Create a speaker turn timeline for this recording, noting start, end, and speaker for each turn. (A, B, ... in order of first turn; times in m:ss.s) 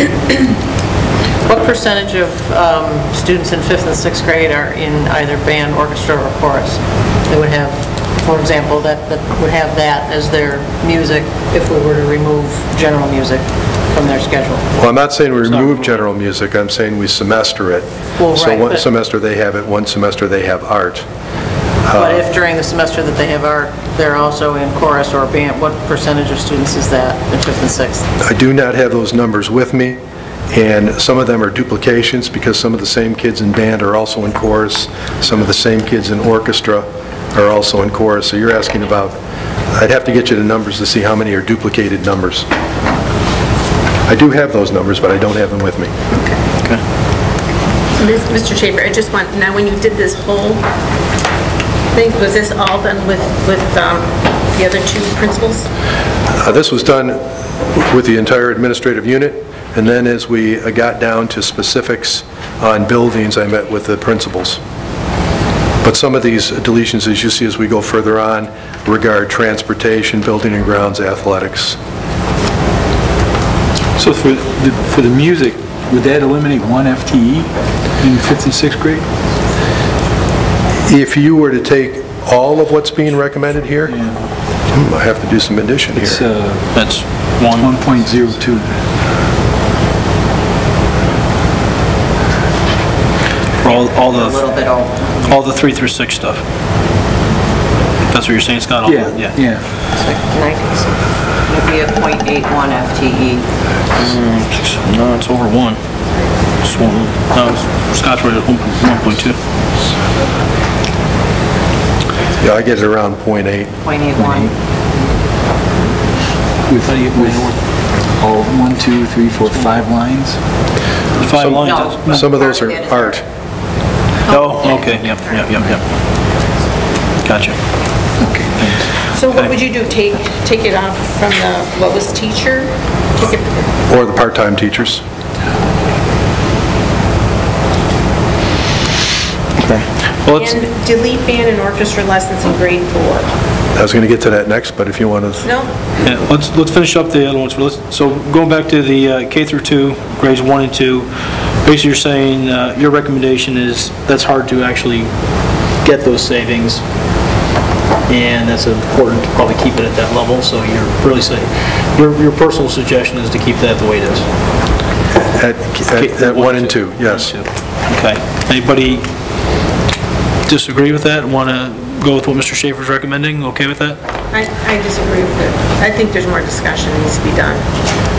0:01.4-0:14.7 A
0:14.7-0:21.0 B
0:15.4-0:16.0 C
0:18.2-0:18.9 A
0:21.8-0:22.3 B
0:21.9-0:28.1 A
0:28.2-0:30.0 B
0:30.5-0:39.2 B
0:39.7-0:42.5 B
0:44.1-0:45.9 B
0:48.0-0:50.6 D
0:51.9-0:55.7 D
0:56.3-0:57.2 B
0:57.7-1:04.6 B
1:05.8-1:11.8 B
1:14.0-1:19.0 E
1:20.9-1:24.0 B
1:23.9-1:24.2 E
1:24.7-1:26.2 B
1:25.9-1:26.7 E
1:26.7-1:27.8 C
1:27.5-1:28.8 E
1:33.6-1:34.5 C
1:33.7-1:35.2 A
1:35.2-1:36.4 C
1:38.1-1:39.4 C
1:38.8-1:39.6 E
1:40.0-1:40.9 A
1:41.5-1:43.4 A
1:43.9-1:45.8 C
1:46.6-1:49.4 C
1:52.4-1:53.8 B
1:53.8-1:54.5 A
1:54.1-1:54.5 E
1:56.6-1:57.6 E
1:58.1-2:00.4 E
2:01.2-2:02.4 C
2:01.3-2:03.2 B
2:01.6-2:03.1 A
2:04.3-2:05.2 D
2:04.3-2:05.8 C
2:07.2-2:07.6 C
2:08.2-2:09.0 E
2:09.0-2:13.7 D
2:13.9-2:15.0 B
2:19.6-2:20.6 C
2:20.3-2:23.3 D
2:23.7-2:25.5 B
2:25.4-2:25.7 D
2:26.0-2:31.1 C
2:31.6-2:35.1 C
2:35.8-2:36.8 C
2:38.1-2:44.3 C
2:45.3-2:47.3 B
2:45.9-2:49.1 C
2:50.5-2:54.0 C
2:54.3-2:57.6 D